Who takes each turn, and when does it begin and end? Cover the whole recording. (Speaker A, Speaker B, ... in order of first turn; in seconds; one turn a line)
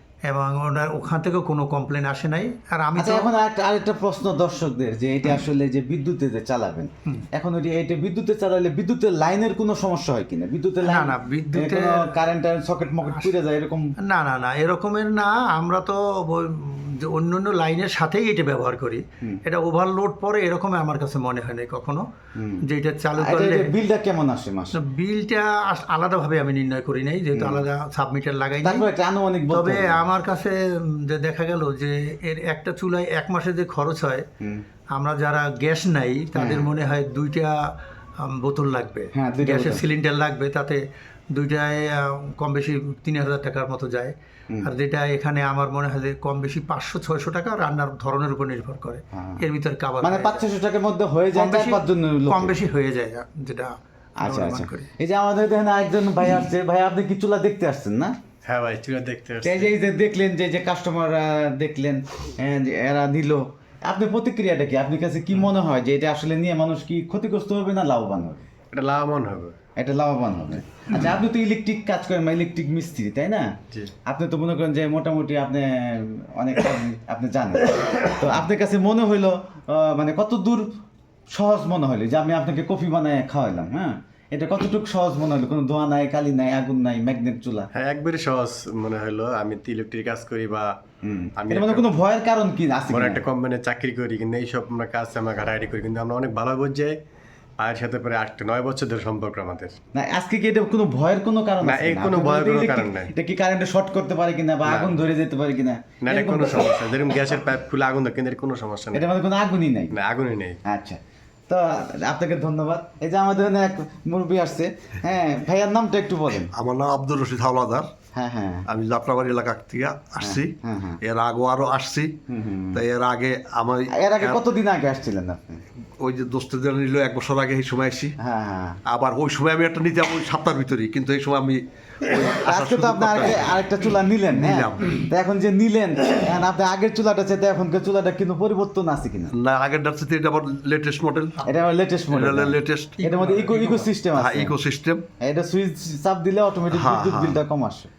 Speaker A: 0.2-3.3
Speaker B: 3.0-13.9
Speaker A: 10.8-12.1
Speaker A: 14.0-22.1
Speaker B: 22.3-22.6
Speaker A: 22.6-23.7
Speaker B: 23.2-24.8
Speaker A: 24.7-28.8
Speaker B: 27.3-27.7
Speaker B: 28.6-30.0
Speaker A: 29.5-34.2
Speaker A: 34.9-40.8
Speaker B: 36.3-36.7
Speaker B: 39.1-39.8
Speaker A: 41.3-50.4
Speaker B: 49.1-49.4
Speaker B: 50.0-52.6
Speaker A: 51.3-54.9
Speaker B: 54.2-58.1
Speaker C: 58.4-59.7
Speaker B: 59.4-68.5
Speaker C: 68.7-69.6
Speaker B: 69.8-73.5
Speaker B: 74.1-80.7
Speaker B: 81.3-87.7
Speaker C: 87.8-90.7
Speaker B: 91.0-93.2
Speaker C: 91.4-91.9
Speaker C: 92.9-97.0
Speaker C: 97.6-99.8
Speaker B: 99.9-106.8
Speaker C: 101.6-103.1
Speaker C: 104.6-105.0
Speaker C: 106.0-109.1
Speaker B: 108.9-109.9
Speaker C: 109.9-110.6
Speaker B: 110.7-116.5
Speaker D: 116.5-117.9
Speaker B: 118.1-118.7
Speaker D: 118.7-122.2
Speaker B: 120.2-121.0
Speaker B: 122.3-122.8
Speaker D: 122.7-124.4
Speaker B: 123.9-125.6
Speaker D: 126.0-128.2
Speaker B: 128.2-128.8
Speaker D: 128.8-133.6
Speaker B: 132.3-139.3
Speaker D: 134.3-135.1
Speaker D: 139.3-141.4
Speaker B: 141.5-144.5
Speaker D: 142.1-143.0
Speaker A: 143.0-143.9
Speaker D: 144.1-145.0
Speaker B: 145.2-147.9
Speaker D: 146.7-147.4